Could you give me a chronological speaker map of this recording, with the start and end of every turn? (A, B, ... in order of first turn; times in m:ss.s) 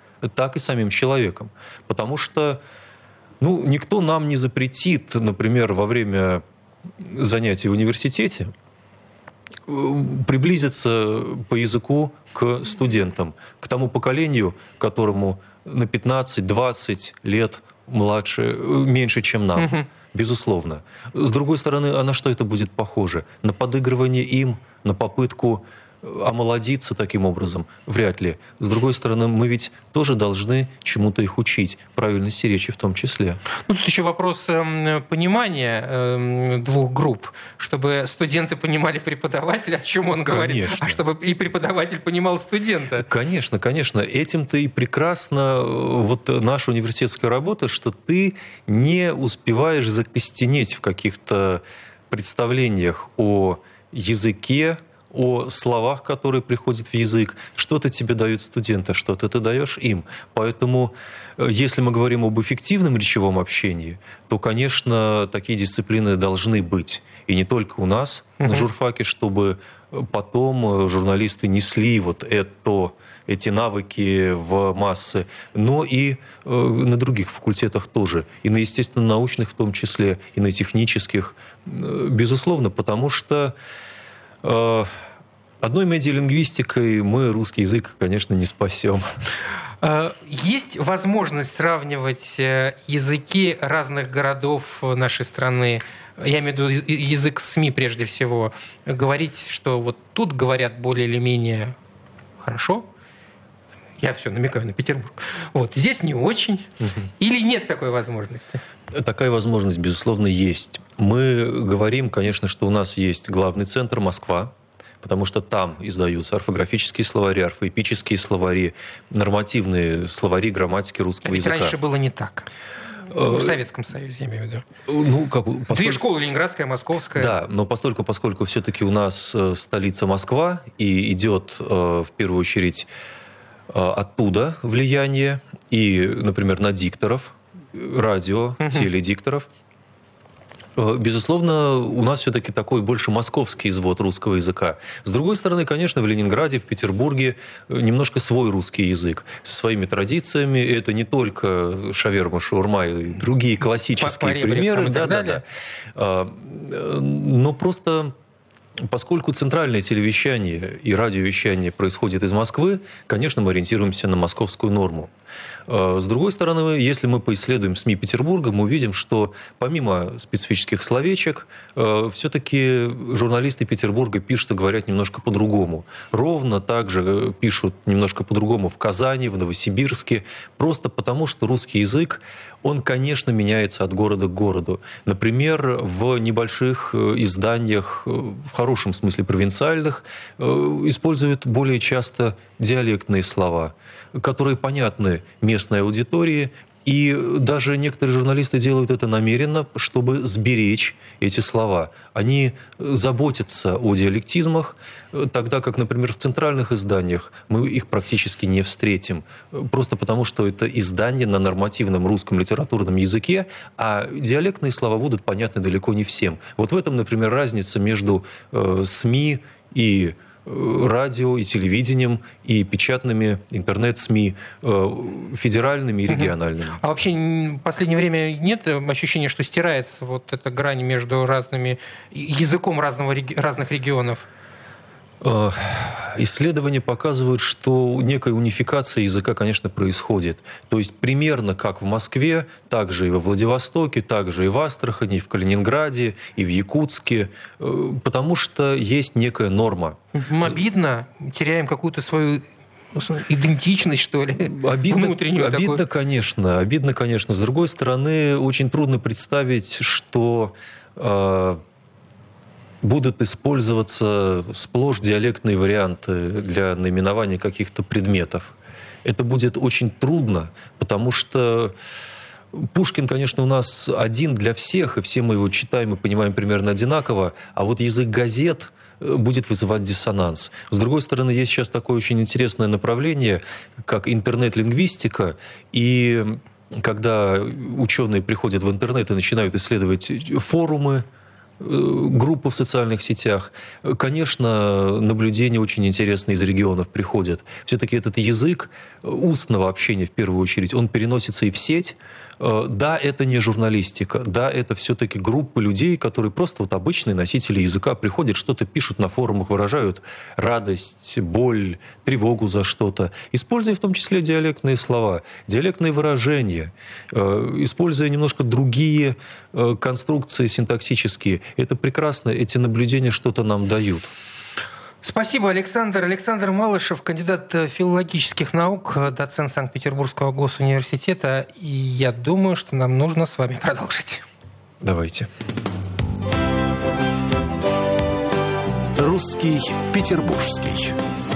0:00.2-0:02.6 A
0:03.4-0:06.4 A
0:07.0-0:08.5 A
0:09.7-0:33.4 A
0:19.6-0:19.9 B
0:33.5-0:43.0 B
0:40.2-0:41.0 A
0:43.0-1:23.5 A
1:08.4-1:08.7 B
1:24.4-1:24.9 A
1:25.6-1:29.0 A
1:29.8-1:41.7 B
1:42.4-1:42.8 B
1:44.0-1:46.7 B
1:47.2-1:48.6 B
1:48.9-2:01.8 A
2:01.2-2:02.5 B
2:03.1-2:03.6 A
2:03.1-2:04.6 B
2:04.9-2:06.0 A
2:05.7-2:07.4 B
2:07.1-2:12.9 A
2:13.7-2:19.5 A
2:18.6-2:18.9 B
2:20.8-2:38.1 A
2:33.8-2:35.4 B
2:38.8-2:45.1 A
2:45.7-3:46.8 A
3:46.1-3:54.2 B
3:55.2-4:10.0 A
4:10.1-4:15.8 B
4:14.3-4:21.6 A
4:22.8-4:31.7 A
4:32.5-4:51.0 A
4:51.6-5:24.1 A
5:25.0-5:34.2 B
5:34.8-5:35.3 A
5:39.0-5:40.9 C